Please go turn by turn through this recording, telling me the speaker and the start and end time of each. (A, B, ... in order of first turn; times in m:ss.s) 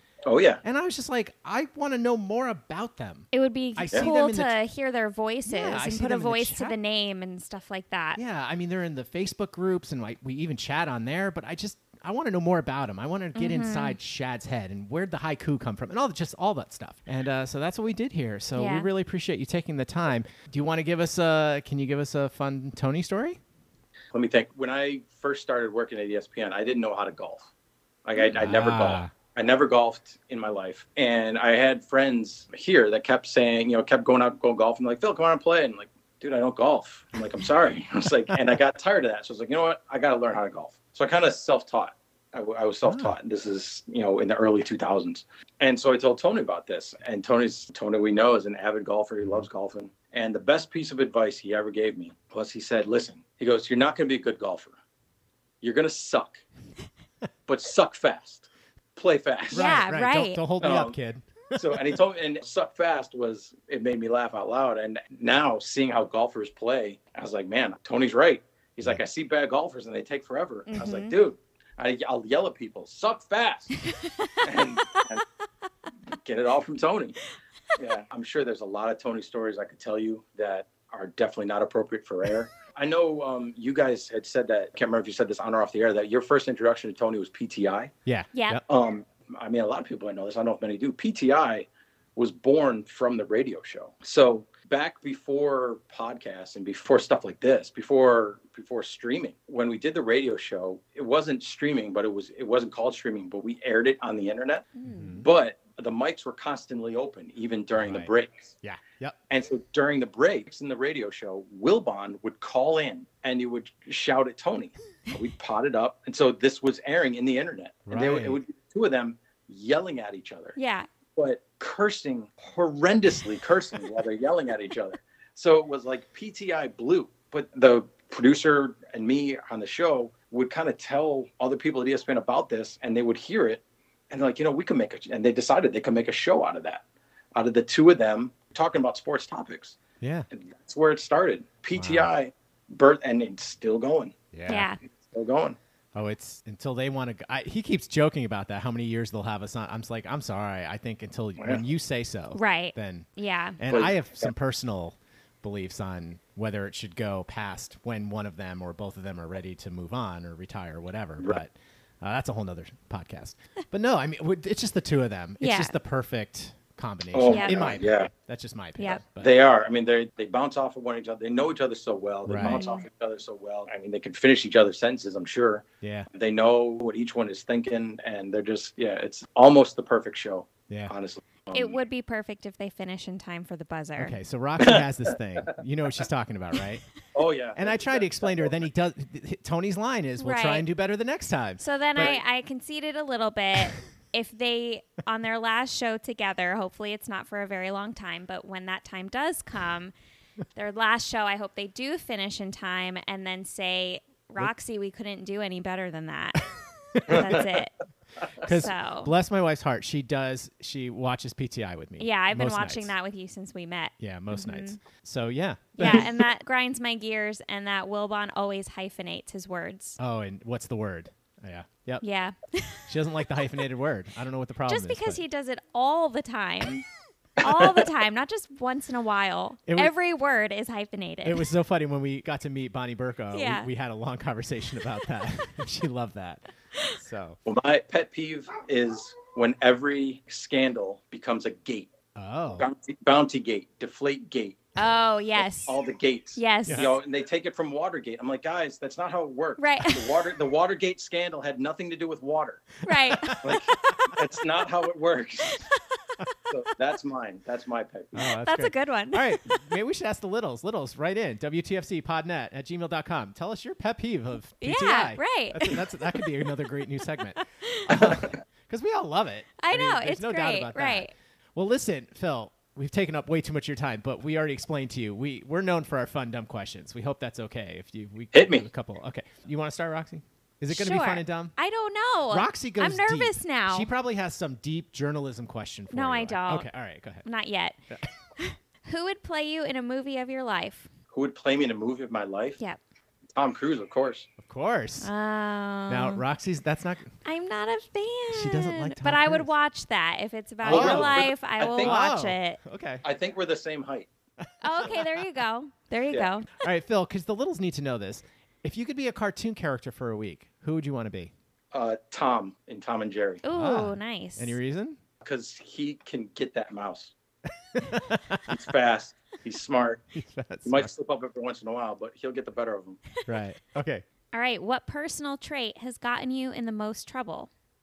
0:00.3-0:00.6 A
0:00.6-0:04.6 B
0:03.3-0:08.2 C
0:05.5-0:06.8 B
0:08.2-0:23.4 B
0:13.4-0:14.0 C
0:18.6-0:18.9 C
0:24.1-0:27.5 A
0:28.1-0:54.8 A
0:28.4-0:29.1 B
0:42.8-0:43.2 B
0:55.6-0:56.4 A
0:57.5-0:59.7 A
0:59.5-1:00.4 C
0:59.5-1:02.0 B
1:00.6-1:01.0 A
1:01.6-1:13.7 A
1:10.7-1:11.1 C
1:14.4-1:15.2 A
1:16.2-1:17.2 A
1:17.8-1:27.9 A
1:28.1-1:28.6 B
1:28.3-1:28.6 C
1:28.7-1:48.5 A
1:44.8-1:45.2 C
1:44.9-1:45.3 B
1:47.8-1:48.1 B
1:48.6-1:49.2 B
1:49.3-2:00.6 A
1:57.9-1:58.4 B
2:00.6-2:00.9 C
2:01.2-2:16.8 A
2:17.4-2:19.8 A
2:20.0-2:20.3 B
2:20.3-2:24.2 A
2:21.8-2:22.1 B
2:24.3-2:24.7 B
2:24.5-2:24.8 C
2:25.1-2:25.6 A
2:25.9-2:49.3 B
2:32.3-2:33.6 C
2:33.7-2:34.3 A
2:45.4-2:45.8 C
2:47.1-2:48.1 A
2:47.3-2:47.8 C
2:49.2-3:01.8 A
2:52.3-2:52.6 B
2:52.4-2:52.8 C
2:55.8-2:56.1 B
3:01.5-3:04.2 C
3:04.0-3:06.8 B
3:04.6-3:05.1 A
3:07.1-3:08.7 A
3:07.6-3:12.1 B
3:10.2-3:10.7 C
3:11.6-3:19.9 C
3:20.6-3:27.7 C
3:27.0-3:27.2 B
3:28.4-3:29.1 C
3:28.4-3:32.9 B
3:32.0-3:34.8 C
3:34.0-3:36.1 B
3:35.8-3:40.0 C
3:40.0-3:42.0 B
3:42.0-3:42.9 C
3:42.9-3:45.2 B
3:44.7-3:46.8 C
3:47.4-3:51.5 C
3:49.7-3:49.9 B
3:51.2-3:57.4 B
3:53.3-3:53.7 C
3:57.5-4:01.9 A
4:02.2-4:02.7 B
4:02.6-4:04.6 A
4:04.8-4:05.8 C
4:05.7-4:12.7 A
4:06.4-4:06.9 C
4:06.7-4:06.9 B
4:09.6-4:10.1 C
4:12.8-4:13.6 C
4:13.1-4:13.6 B
4:13.4-4:15.6 A
4:16.5-4:18.1 A
4:18.2-4:41.6 B
4:18.2-4:19.6 C
4:24.6-4:26.2 C
4:27.6-4:27.9 C
4:28.0-4:28.3 A
4:29.6-4:31.1 C
4:38.3-4:38.7 A
4:40.7-4:43.9 C
4:42.3-4:47.2 B
4:45.9-4:46.7 C
4:47.2-4:47.8 C
4:48.4-4:50.9 C
4:51.1-4:52.6 A
4:53.4-4:54.3 A
4:54.4-4:55.1 B
4:55.0-4:56.2 C
4:55.9-4:57.2 B
4:57.2-5:02.6 C
4:58.3-4:59.5 B
5:00.6-5:02.0 A
5:00.7-5:03.0 B
5:03.0-5:04.1 A
5:04.4-5:05.0 B
5:04.6-5:06.6 C
5:06.6-5:11.3 B
5:11.7-5:13.4 A
5:13.4-5:14.6 C
5:13.6-5:15.0 B
5:15.2-5:17.1 A
5:17.7-5:18.5 B
5:18.5-5:20.0 A
5:20.2-5:20.9 B
5:20.6-5:23.0 A
5:23.3-5:24.0 B
5:24.3-5:27.5 C